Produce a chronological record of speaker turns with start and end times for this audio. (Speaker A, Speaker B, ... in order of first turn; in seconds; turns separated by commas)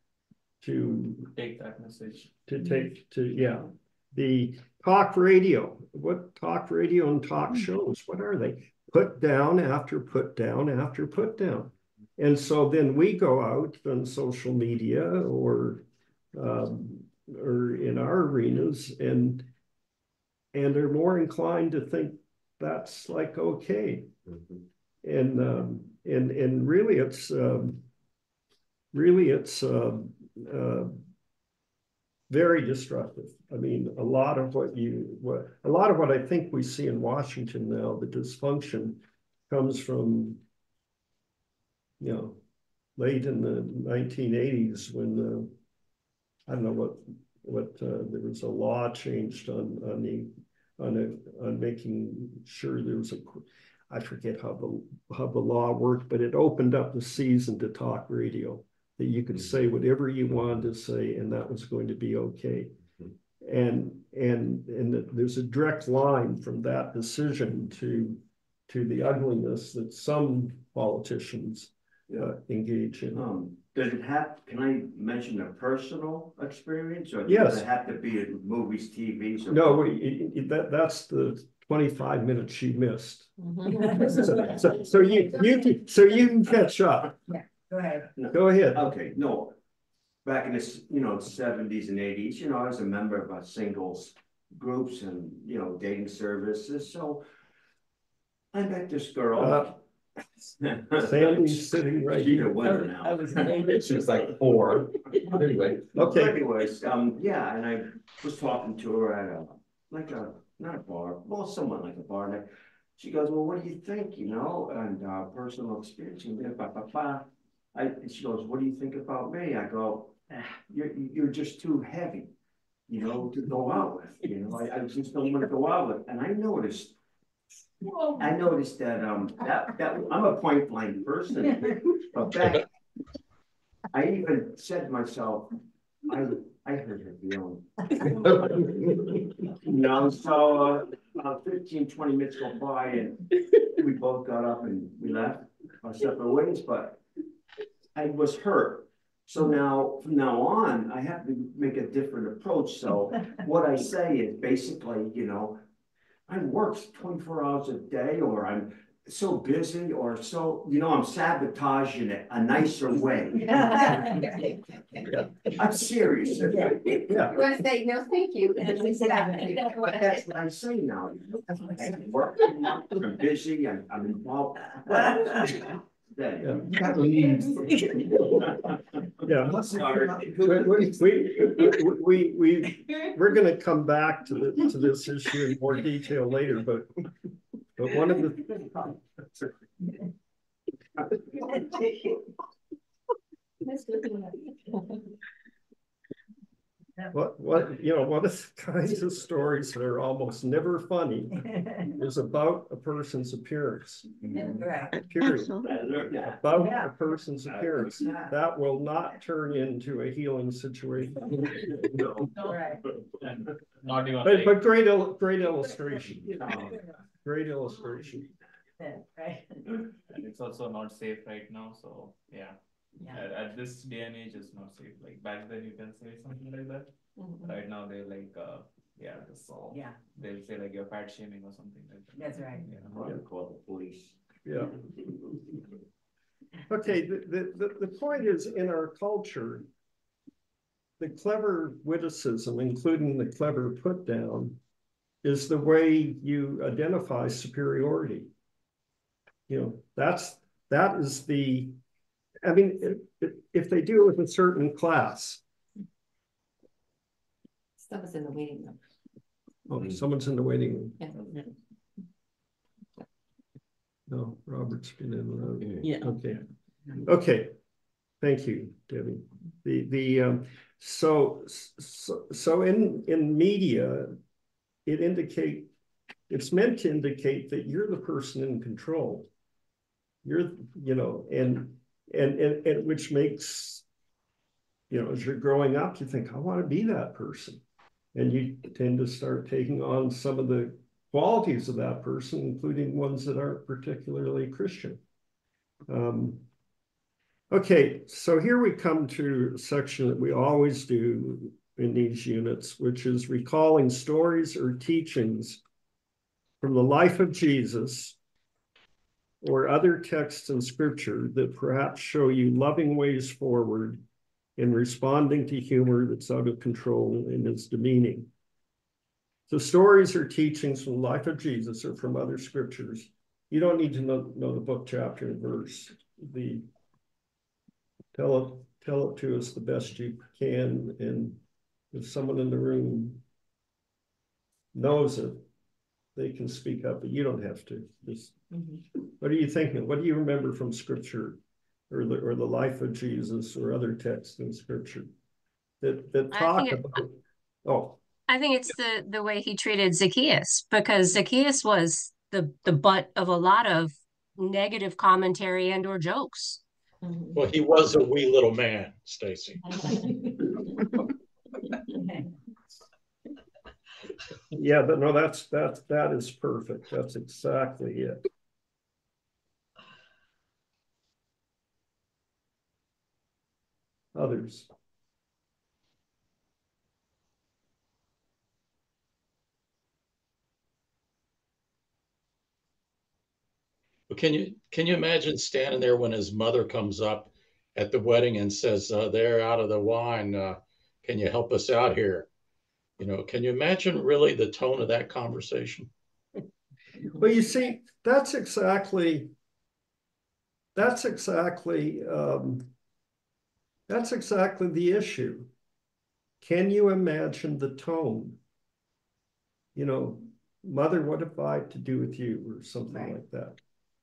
Speaker A: 0.6-1.3, Speaker B: 1.3-2.3, Speaker A: 2.5-19.5, Speaker A: 20.5-24.1, Speaker C: 24.3-24.6, Speaker A: 25.0-27.8, Speaker A: 28.9-31.0, Speaker A: 32.3-40.4, Speaker A: 42.0-42.4, Speaker A: 43.0-45.5, Speaker A: 46.5-62.7, Speaker A: 63.4-73.2, Speaker D: 73.1-79.8, Speaker A: 77.2-77.7, Speaker A: 79.5-87.2, Speaker E: 83.4-84.5, Speaker F: 87.3-88.1, Speaker D: 88.1-89.5, Speaker A: 88.3-88.8, Speaker D: 90.2-97.2, Speaker D: 98.5-99.8, Speaker A: 99.3-99.7, Speaker D: 100.6-103.6, Speaker A: 101.0-102.7, Speaker B: 102.6-104.0, Speaker C: 103.4-106.0, Speaker D: 105.9-122.3, Speaker A: 105.9-106.4, Speaker D: 122.9-126.9, Speaker D: 128.1-132.7, Speaker D: 133.9-135.5, Speaker D: 136.1-138.7, Speaker C: 138.9-139.2, Speaker D: 139.6-143.2, Speaker D: 143.8-147.0, Speaker D: 147.9-155.6, Speaker D: 156.3-164.2, Speaker F: 163.6-164.4, Speaker D: 165.6-167.3, Speaker A: 167.1-167.3, Speaker E: 167.1-170.0, Speaker F: 169.0-169.4, Speaker D: 169.2-181.0, Speaker A: 176.4-177.4, Speaker A: 179.2-186.9, Speaker A: 187.8-188.9, Speaker E: 193.6-195.0, Speaker A: 197.1-204.1, Speaker C: 204.2-204.7, Speaker F: 204.6-204.9, Speaker A: 204.8-211.7, Speaker D: 205.6-206.7, Speaker F: 206.6-206.9, Speaker D: 207.4-208.3, Speaker D: 211.9-212.3, Speaker F: 212.4-212.8, Speaker B: 213.2-214.6, Speaker A: 214.2-218.3, Speaker F: 218.8-219.6, Speaker B: 220.1-233.1, Speaker E: 227.2-227.5, Speaker F: 229.7-230.0, Speaker F: 232.1-232.7, Speaker D: 232.9-234.2, Speaker A: 234.4-234.8, Speaker A: 236.7-239.7, Speaker A: 241.0-244.6, Speaker A: 245.2-248.3, Speaker A: 249.5-251.8, Speaker A: 252.4-255.4, Speaker E: 257.8-258.8, Speaker A: 259.7-261.0, Speaker E: 261.0-261.4, Speaker A: 264.1-266.4, Speaker C: 265.6-265.9, Speaker B: 265.8-266.3, Speaker A: 267.0-267.5, Speaker A: 268.2-274.1, Speaker A: 274.9-275.7, Speaker A: 276.3-279.3, Speaker A: 280.2-283.8, Speaker A: 284.9-287.6, Speaker A: 288.1-295.0, Speaker A: 295.9-296.4, Speaker A: 297.5-305.6, Speaker A: 306.6-308.2, Speaker A: 309.4-314.0, Speaker A: 314.6-318.3, Speaker A: 319.5-326.6, Speaker A: 328.1-331.4, Speaker A: 331.9-333.2, Speaker A: 334.7-335.4, Speaker A: 336.1-338.3, Speaker A: 339.2-341.4, Speaker A: 341.9-345.1, Speaker A: 345.8-348.0, Speaker G: 346.3-347.0, Speaker G: 348.3-356.6, Speaker E: 357.0-357.4, Speaker H: 357.3-359.9, Speaker E: 359.6-360.6, Speaker A: 364.5-368.2, Speaker A: 374.1-374.7, Speaker H: 384.1-392.3, Speaker H: 393.0-395.9, Speaker A: 397.2-399.3, Speaker A: 400.7-402.7, Speaker A: 403.9-405.5, Speaker A: 406.4-408.4, Speaker A: 409.7-413.6, Speaker F: 412.9-413.2